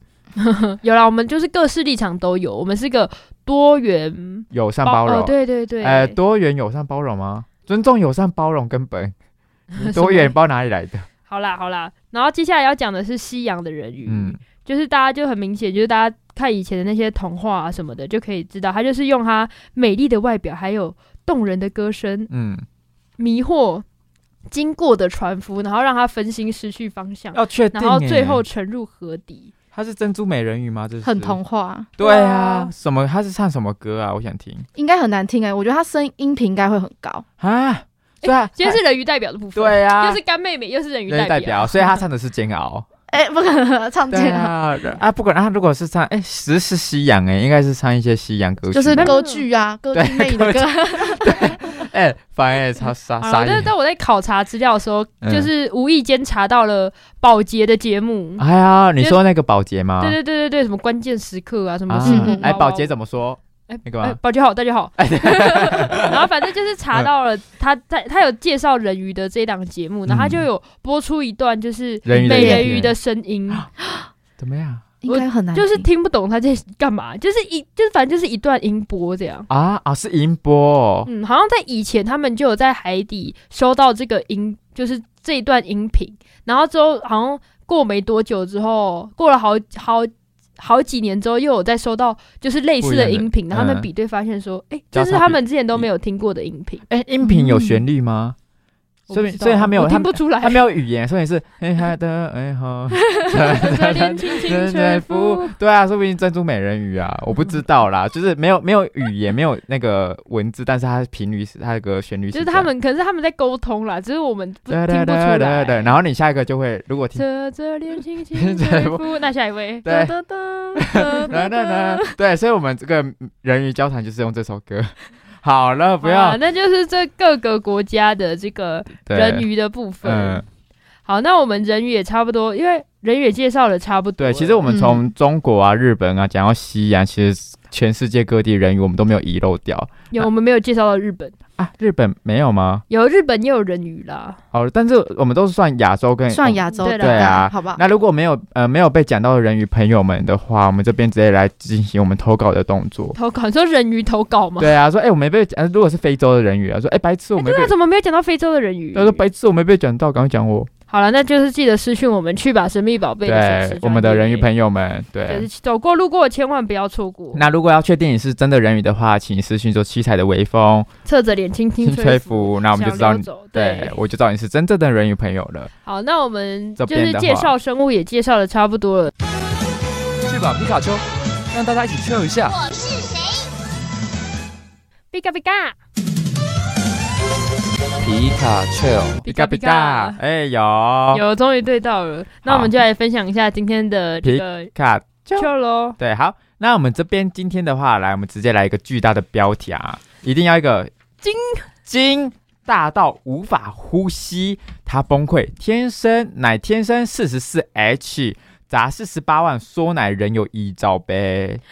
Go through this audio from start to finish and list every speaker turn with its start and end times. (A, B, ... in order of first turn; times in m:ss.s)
0:00.4-0:06.2 A
0:04.5-0:09.1 B
0:09.7-0:10.3 A
0:09.8-0:11.1 B
0:11.3-0:22.3 A
0:14.1-0:14.4 B
0:22.3-0:22.6 B
0:23.2-0:23.8 A
0:24.5-0:29.5 A
0:27.3-0:28.4 B
0:29.7-0:31.4 B
0:31.0-0:32.0 C
0:32.0-0:34.7 B
0:32.0-0:32.7 A
0:34.8-0:37.2 C
0:37.4-0:38.8 B
0:38.2-0:42.0 A
0:39.6-0:40.2 B
0:41.1-0:42.9 B
0:43.1-0:44.5 C
0:44.1-0:49.1 B
0:48.7-0:51.6 C
0:49.0-0:49.4 A
0:49.9-0:53.7 B
0:53.2-0:58.4 A
0:55.2-0:55.5 B
0:58.4-1:00.2 B
1:00.0-1:02.9 A
1:01.9-1:04.2 B
1:02.0-1:02.5 C
1:03.7-1:13.7 A
1:05.0-1:06.2 B
1:10.1-1:10.5 B
1:12.0-1:12.9 B
1:12.3-1:12.7 C
1:14.4-1:14.9 B
1:15.0-1:15.9 C
1:15.1-1:19.5 A
1:19.5-1:21.1 B
1:21.1-1:36.9 A
1:32.8-1:33.9 B
1:34.9-1:35.9 B
1:36.9-1:38.4 B
1:37.2-1:37.8 C
1:39.1-1:40.6 A
1:39.1-1:52.7 B
1:43.4-1:45.5 A
1:52.3-1:55.9 A
1:54.7-1:57.2 B
1:57.2-2:00.2 A
1:58.3-1:59.0 B
1:59.8-2:00.1 B
2:00.1-2:02.1 C
2:00.8-2:01.4 A
2:00.8-2:06.4 B
2:06.0-2:10.4 A
2:09.1-2:09.5 B
2:10.0-2:10.4 B
2:11.1-2:14.6 A
2:14.2-2:20.3 B
2:14.7-2:15.0 C
2:20.1-2:21.4 A
2:21.6-2:22.8 B
2:22.9-2:24.4 A
2:24.5-2:33.2 B
2:26.3-2:27.8 C
2:26.7-2:27.5 A
2:33.2-2:34.7 A
2:34.6-2:37.7 B
2:37.4-2:39.2 A
2:38.9-2:40.7 B
2:40.9-2:44.5 A
2:43.2-2:45.5 B
2:45.3-2:47.4 A
2:47.3-2:50.9 B
2:51.0-2:54.0 A
2:51.8-2:55.7 B
2:55.8-2:59.1 A
2:56.8-2:57.5 B
3:00.2-3:02.8 D
3:05.1-3:05.8 A
3:08.0-3:09.2 D
3:09.2-3:10.2 A
3:09.3-3:11.2 B
3:11.1-3:14.7 A
3:12.4-3:12.7 B
3:14.2-3:20.9 B
3:15.4-3:16.0 A
3:21.2-3:21.7 A
3:21.9-3:31.6 B